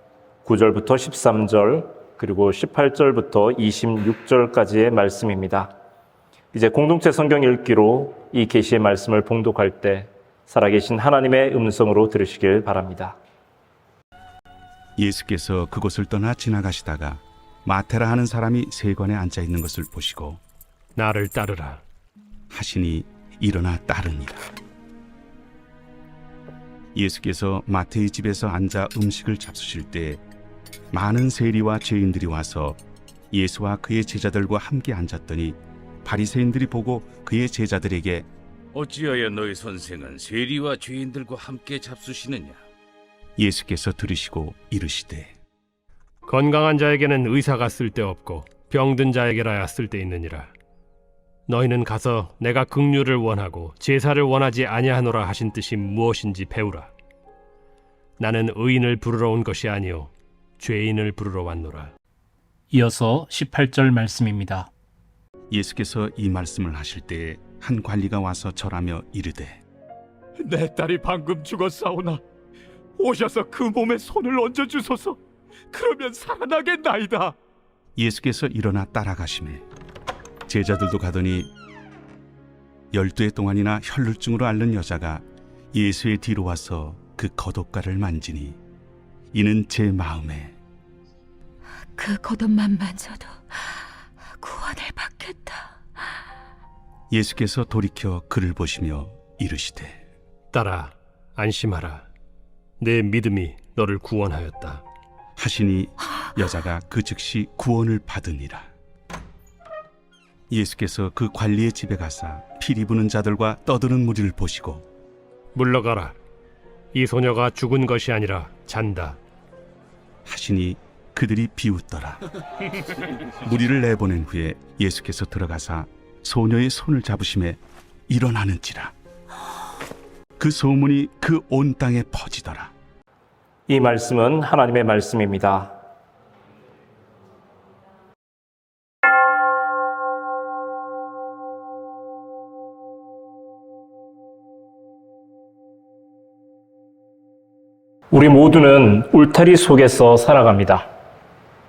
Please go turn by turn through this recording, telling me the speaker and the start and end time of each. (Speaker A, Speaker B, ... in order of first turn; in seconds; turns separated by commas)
Speaker A: 0.5-5.7, Speaker A: 6.5-13.2, Speaker B: 15.0-20.4, Speaker C: 21.0-21.8, Speaker B: 22.5-24.4, Speaker B: 26.9-30.2, Speaker B: 30.9-32.8, Speaker B: 33.3-38.3, Speaker D: 38.7-42.6, Speaker B: 43.4-45.3, Speaker C: 46.3-50.5, Speaker C: 51.5-56.9, Speaker C: 58.2-61.9, Speaker A: 62.7-64.7, Speaker B: 65.5-69.6, Speaker E: 70.4-72.2, Speaker E: 73.0-75.2, Speaker E: 75.7-77.3, Speaker B: 78.0-79.6, Speaker B: 80.5-81.5, Speaker B: 82.9-88.6, Speaker B: 89.3-90.5, Speaker F: 92.0-93.4, Speaker F: 94.4-95.8, Speaker B: 97.1-100.0, Speaker C: 100.5-102.0, Speaker C: 102.8-104.8, Speaker B: 105.4-108.7, Speaker B: 110.5-114.8, Speaker C: 115.5-116.2, Speaker C: 116.9-119.2, Speaker B: 120.2-122.2, Speaker B: 123.4-128.9, Speaker B: 130.4-132.7, Speaker A: 133.7-135.7, Speaker A: 148.1-150.9